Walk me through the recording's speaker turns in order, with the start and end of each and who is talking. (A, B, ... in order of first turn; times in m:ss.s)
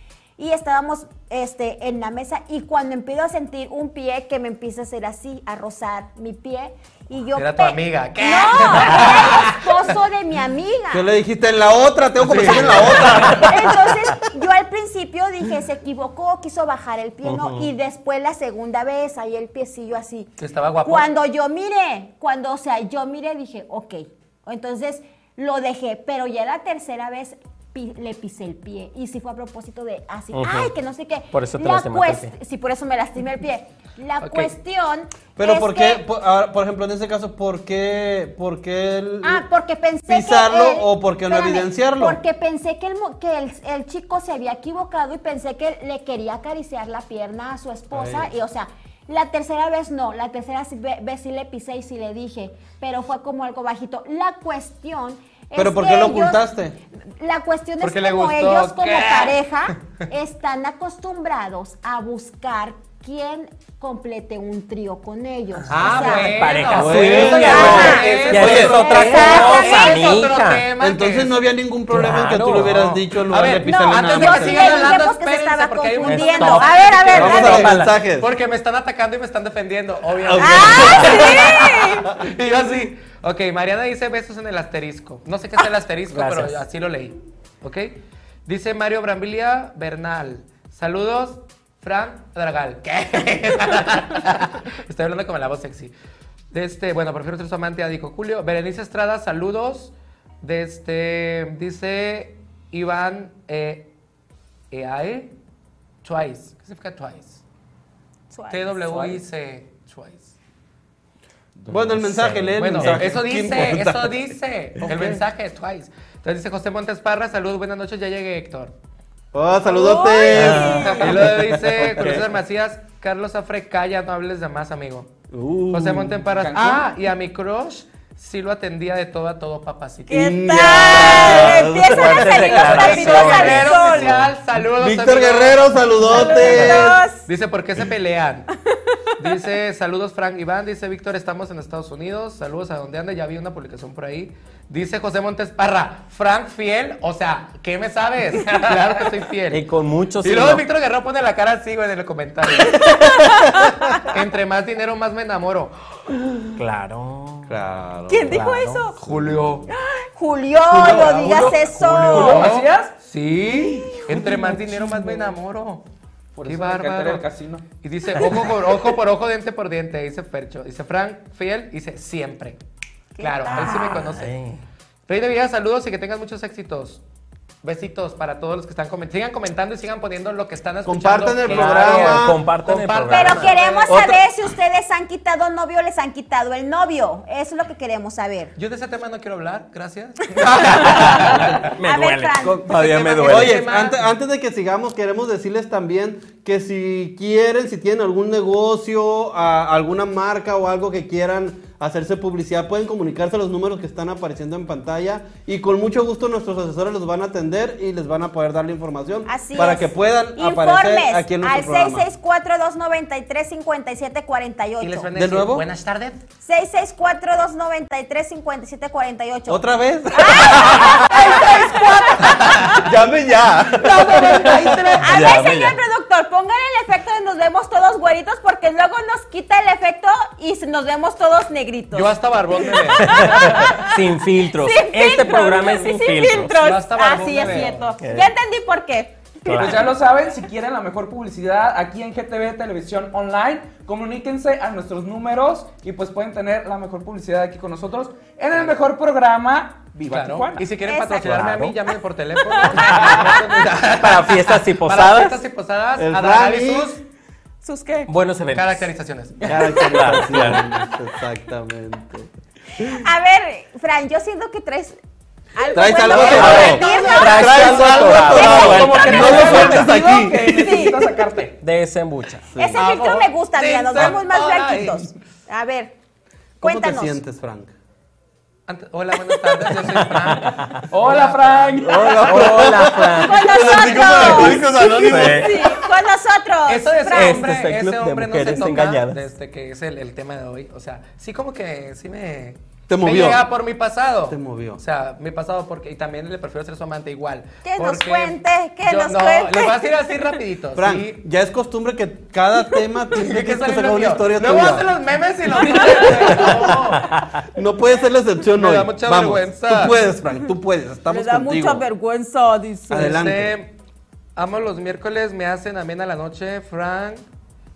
0:00.4-0:11.1 A
0:07.4-0:09.9 B
0:10.9-0:13.9 C
0:12.2-0:13.4 B
0:13.3-0:20.3 A
0:17.2-0:17.7 D
0:20.4-0:21.1 B
0:20.8-0:36.0 A
0:30.3-0:30.7 D
0:31.3-0:32.3 D
0:34.2-0:34.5 B
0:35.4-0:39.4 C
0:39.2-0:56.4 A
0:40.1-0:42.2 C
0:47.9-0:48.3 C
0:55.5-0:56.8 C
0:57.2-1:06.6 A
0:57.8-0:59.4 B
1:05.6-1:10.7 D
1:05.7-1:11.4 B
1:06.7-1:09.4 C
1:07.1-1:09.2 E
1:07.3-1:10.2 A
1:10.8-1:15.0 C
1:11.9-1:12.9 D
1:12.5-1:35.9 B
1:13.6-1:17.7 A
1:16.0-1:17.9 D
1:17.1-1:18.3 C
1:20.2-1:21.6 C
1:20.4-1:22.1 A
1:26.1-1:26.6 D
1:36.5-1:43.9 B
1:44.7-1:45.3 B
1:46.0-1:47.4 B
1:48.3-1:49.0 A
1:48.5-1:50.3 B
1:51.7-1:54.2 C
1:51.7-1:53.1 D
1:52.6-1:58.7 B
1:54.8-1:55.2 C
1:59.3-2:02.2 C
1:59.6-2:01.1 A
2:00.3-2:00.9 D
2:00.8-2:05.1 B
2:05.3-2:06.3 C
2:05.7-2:11.5 B
2:06.4-2:06.9 E
2:10.1-2:14.1 A
2:10.1-2:12.7 C
2:11.6-2:14.1 D
2:12.6-2:18.5 B
2:13.9-2:17.0 C
2:16.1-2:17.2 A
2:19.2-2:29.6 B
2:29.5-2:30.6 D
2:30.2-2:33.1 B
2:32.6-2:34.0 A
2:34.0-2:35.7 B
2:36.6-2:37.5 D
2:37.4-2:38.4 C
2:38.1-2:39.0 A
2:38.3-2:38.9 D
2:39.0-2:39.7 B
2:39.0-2:39.6 C
2:39.7-2:42.5 A
2:40.7-2:42.9 E
2:40.7-2:45.8 B
2:44.1-2:45.3 E
2:46.3-2:47.6 E
2:46.4-2:47.3 B
2:47.8-2:52.6 B
2:53.2-2:54.1 A
2:53.2-2:54.3 B
2:53.5-2:54.6 D
2:55.1-2:57.0 B
2:57.6-3:04.1 B
3:00.8-3:02.4 C
3:01.4-3:04.1 D
3:03.1-3:08.5 A
3:08.6-3:11.7 B
3:10.5-3:13.6 D
3:10.7-3:11.2 A
3:11.8-3:12.8 A
3:12.6-3:14.0 B
3:13.2-3:32.1 C
3:29.3-3:35.1 A
3:34.8-3:36.2 B
3:35.1-3:35.7 C
3:36.4-3:42.8 A
3:39.5-3:45.0 C
3:42.4-3:42.8 B
3:43.8-3:45.3 B
3:43.9-3:44.9 E
3:45.0-3:54.0 A
3:45.1-3:45.8 D
3:51.9-3:53.8 B
3:53.0-3:56.6 D
3:54.5-3:59.8 A
3:56.6-3:58.0 B
3:58.0-3:58.3 D
3:59.4-3:59.9 D
3:59.5-4:10.7 E
4:08.5-4:08.8 B
4:10.1-4:17.0 B
4:10.8-4:11.4 A
4:11.2-4:11.8 D
4:12.4-4:13.4 A
4:12.8-4:13.4 D
4:13.9-4:15.4 D
4:16.0-4:17.0 C
4:17.6-4:18.1 A
4:18.1-4:18.9 D
4:18.5-4:19.4 B
4:19.4-4:20.1 E
4:19.4-4:23.0 C
4:19.8-4:20.6 D
4:22.8-4:25.0 A
4:25.5-4:29.6 A
4:25.7-4:30.8 C
4:26.1-4:28.2 B
4:26.3-4:29.9 D
4:28.3-4:31.6 E
4:30.5-4:31.0 A
4:31.6-4:32.4 D
4:32.5-4:32.8 C
4:32.6-4:35.9 A
4:32.8-4:35.1 B
4:36.6-4:37.2 A
4:36.6-4:37.7 C
4:38.7-4:42.0 B
4:40.1-4:40.8 D
4:40.9-4:42.7 E
4:41.8-4:45.6 C
4:42.2-4:45.6 D
4:43.1-4:47.4 A
4:46.7-5:01.2 B
4:47.1-4:49.2 D
4:48.4-4:48.7 C
4:52.9-4:53.4 C
4:54.3-4:54.8 C
4:57.6-5:00.0 A
5:00.7-5:04.9 C
5:03.1-5:07.1 B
5:05.5-5:06.7 E
5:07.4-5:11.8 C
5:08.5-5:10.0 B
5:11.1-5:13.2 A
5:12.9-5:13.6 C
5:12.9-5:13.7 B
5:14.4-5:17.2 B